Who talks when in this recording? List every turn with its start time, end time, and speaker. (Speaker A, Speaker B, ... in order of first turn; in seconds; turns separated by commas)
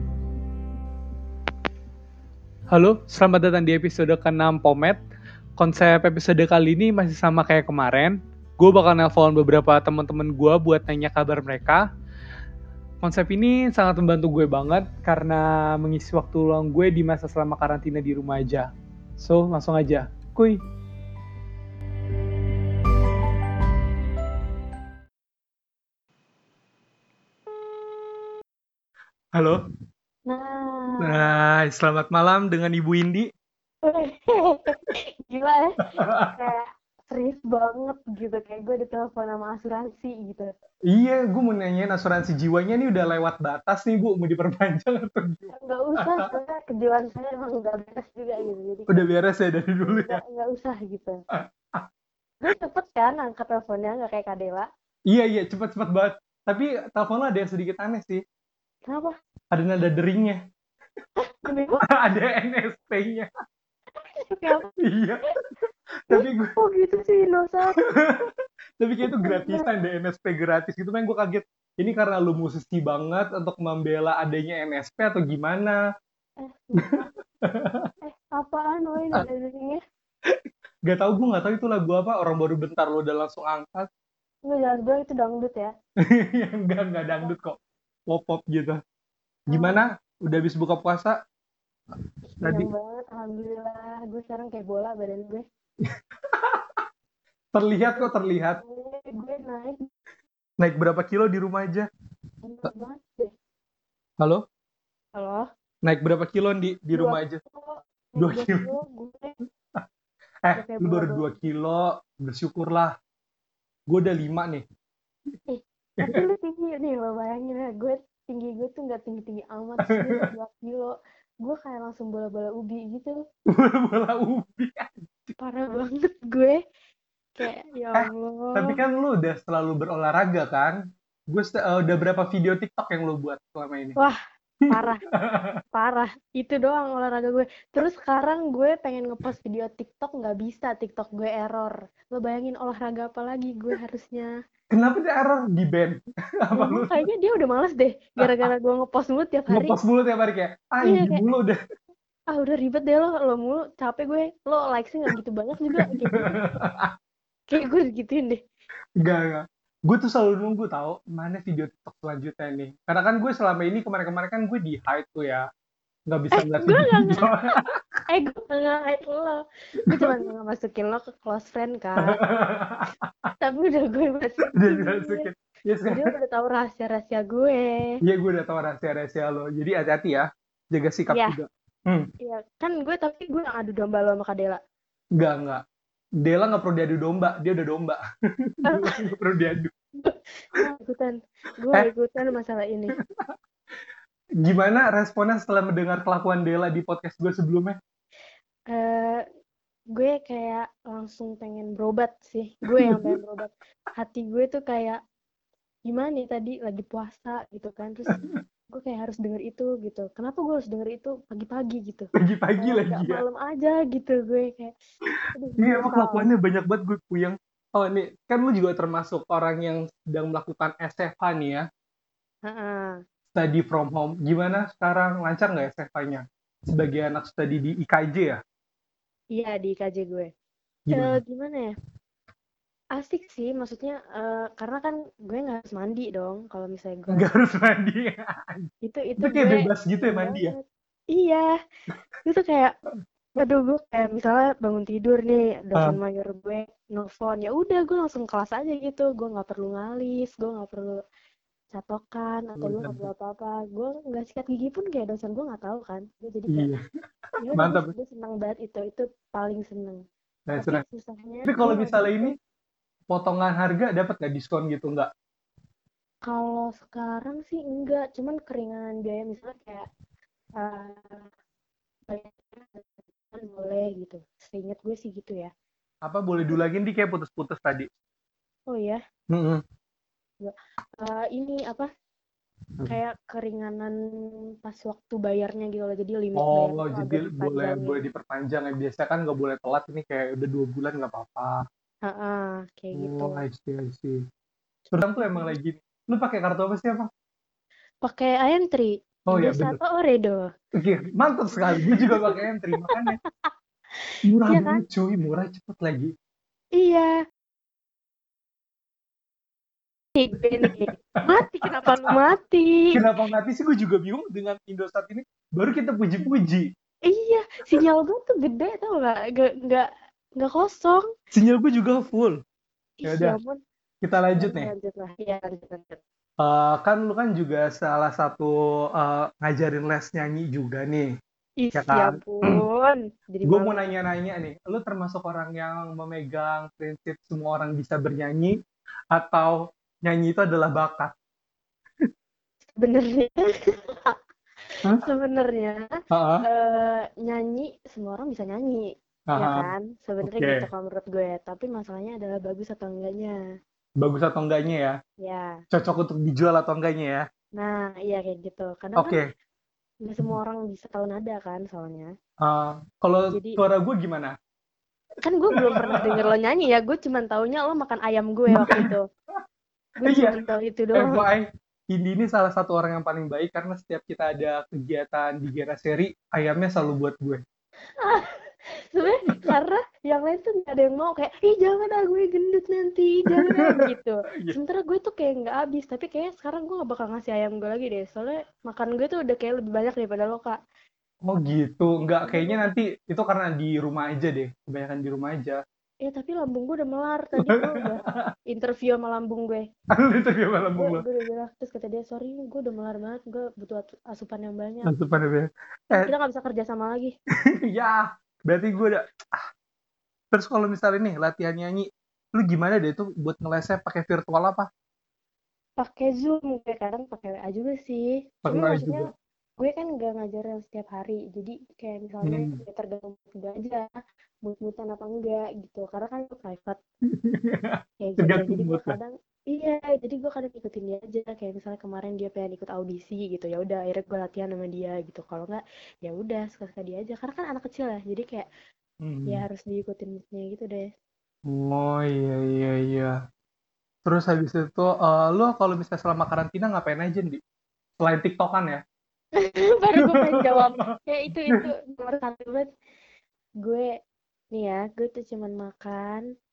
Speaker A: 2.7-5.0, Speaker A: 5.6-11.9, Speaker A: 13.0-20.6, Speaker A: 29.3-29.6, Speaker B: 30.3-31.2, Speaker A: 31.0-33.3, Speaker B: 33.8-40.5, Speaker A: 36.0-36.3, Speaker A: 40.9-46.3, Speaker B: 45.5-49.1, Speaker A: 48.9-50.2, Speaker B: 49.8-51.2, Speaker A: 51.4-51.9, Speaker B: 52.4-54.7, Speaker A: 55.1-58.2, Speaker B: 58.9-59.2, Speaker A: 59.5-60.4, Speaker B: 61.2-61.9, Speaker A: 61.9-63.3, Speaker B: 64.0-64.7, Speaker A: 64.8-65.2, Speaker A: 66.1-66.5, Speaker B: 66.1-67.8, Speaker A: 67.7-75.8, Speaker B: 69.1-69.7, Speaker B: 76.4-77.1, Speaker A: 77.5-77.9, Speaker B: 78.0-79.8, Speaker A: 80.3-83.9, Speaker B: 84.5-85.7, Speaker A: 86.0-88.8, Speaker A: 89.5-91.2, Speaker B: 89.5-89.8, Speaker B: 92.2-95.5, Speaker A: 92.4-92.7, Speaker A: 95.8-96.8, Speaker A: 97.5-98.6, Speaker B: 98.0-99.9, Speaker A: 100.6-101.9, Speaker B: 102.4-103.3, Speaker B: 105.2-105.5, Speaker A: 105.8-107.4, Speaker B: 106.9-109.3, Speaker A: 108.2-108.7, Speaker A: 110.5-113.0, Speaker B: 110.5-111.3, Speaker A: 113.9-114.7, Speaker B: 115.5-123.2, Speaker A: 119.8-120.3, Speaker A: 123.5-125.3, Speaker B: 125.4-126.6, Speaker B: 127.4-128.8, Speaker A: 127.9-134.0, Speaker B: 134.0-135.0, Speaker A: 134.6-135.6, Speaker B: 135.7-144.3, Speaker A: 144.7-147.1, Speaker B: 146.6-149.8, Speaker A: 148.2-148.5, Speaker A: 149.5-151.6, Speaker B: 150.8-151.2, Speaker B: 152.3-156.4, Speaker A: 155.8-156.9, Speaker B: 157.5-158.4, Speaker A: 159.0-165.5, Speaker A: 166.1-167.8, Speaker B: 166.3-167.6, Speaker B: 168.1-172.2, Speaker A: 169.8-170.2, Speaker A: 172.0-173.1, Speaker B: 173.4-175.3, Speaker A: 174.6-176.1, Speaker B: 175.9-178.0, Speaker A: 178.0-182.1, Speaker B: 181.1-181.4, Speaker B: 182.2-184.6, Speaker A: 185.2-185.6, Speaker A: 186.2-189.7, Speaker B: 188.7-189.0, Speaker B: 190.0-193.0, Speaker A: 194.4-197.8, Speaker B: 198.7-199.2, Speaker B: 199.9-205.0, Speaker A: 202.8-203.2, Speaker B: 205.9-214.7, Speaker A: 208.1-208.4, Speaker A: 212.2-213.2, Speaker A: 215.2-221.7, Speaker B: 215.3-216.3, Speaker B: 222.4-223.0, Speaker A: 223.3-228.4, Speaker B: 229.3-230.3, Speaker A: 230.9-231.2, Speaker B: 230.9-231.8, Speaker B: 233.0-237.3, Speaker A: 237.1-240.5, Speaker B: 238.8-241.5, Speaker B: 242.2-242.8, Speaker B: 243.4-251.0, Speaker B: 251.7-256.7, Speaker A: 252.6-253.1, Speaker A: 256.5-256.8, Speaker B: 257.4-262.3, Speaker A: 257.5-257.9, Speaker A: 260.5-260.8, Speaker A: 261.4-262.3, Speaker A: 263.1-265.1, Speaker B: 266.3-269.9, Speaker B: 270.6-271.3, Speaker B: 272.1-275.5, Speaker A: 276.1-277.9, Speaker B: 278.7-279.0, Speaker A: 279.3-279.6, Speaker B: 280.4-281.9, Speaker B: 282.9-284.0, Speaker B: 284.6-288.0, Speaker A: 286.4-291.6, Speaker B: 292.1-293.4, Speaker A: 292.9-294.2, Speaker A: 294.9-297.1, Speaker B: 295.2-295.5, Speaker B: 298.0-300.5, Speaker A: 299.3-299.8, Speaker A: 300.8-303.2, Speaker B: 301.7-303.5, Speaker A: 304.2-306.1, Speaker B: 304.5-304.8, Speaker B: 306.8-307.2, Speaker B: 310.1-313.0, Speaker A: 311.6-312.2, Speaker A: 312.9-316.7, Speaker B: 317.1-321.1, Speaker A: 321.3-322.4, Speaker B: 323.0-323.6, Speaker A: 323.1-323.4, Speaker A: 324.0-324.7, Speaker B: 324.4-326.0, Speaker A: 326.4-331.2, Speaker B: 331.6-333.9, Speaker A: 331.7-332.6, Speaker A: 333.4-338.6, Speaker A: 339.1-341.1, Speaker B: 342.8-344.2, Speaker B: 344.7-345.9, Speaker A: 346.1-346.4, Speaker B: 346.4-353.4, Speaker A: 349.3-349.7, Speaker A: 350.2-350.7, Speaker A: 354.0-355.0, Speaker B: 355.2-355.6, Speaker A: 355.7-357.3, Speaker B: 357.6-359.2, Speaker A: 359.0-359.3, Speaker B: 360.0-362.1, Speaker A: 362.4-364.4, Speaker B: 363.3-363.6, Speaker B: 365.2-369.1, Speaker A: 365.6-366.2, Speaker A: 368.5-368.9, Speaker B: 370.0-371.2, Speaker A: 370.0-370.4, Speaker A: 370.9-377.4, Speaker B: 378.0-390.6, Speaker A: 383.3-383.9, Speaker A: 391.2-395.6, Speaker B: 392.2-392.6, Speaker B: 396.0-399.7, Speaker A: 397.4-398.3, Speaker A: 399.9-401.0, Speaker B: 400.7-404.9, Speaker A: 404.9-406.1, Speaker B: 405.9-407.1, Speaker A: 407.5-409.4, Speaker A: 410.3-414.7, Speaker B: 415.8-423.9, Speaker A: 418.4-419.1, Speaker A: 422.2-422.6, Speaker B: 424.4-426.8, Speaker A: 427.2-429.0, Speaker B: 428.0-438.5, Speaker A: 439.0-439.4, Speaker B: 439.3-440.9, Speaker A: 441.5-443.2, Speaker A: 444.1-447.4, Speaker A: 448.0-448.8, Speaker B: 449.4-452.7, Speaker A: 450.0-450.9, Speaker B: 453.6-454.0, Speaker B: 454.5-456.3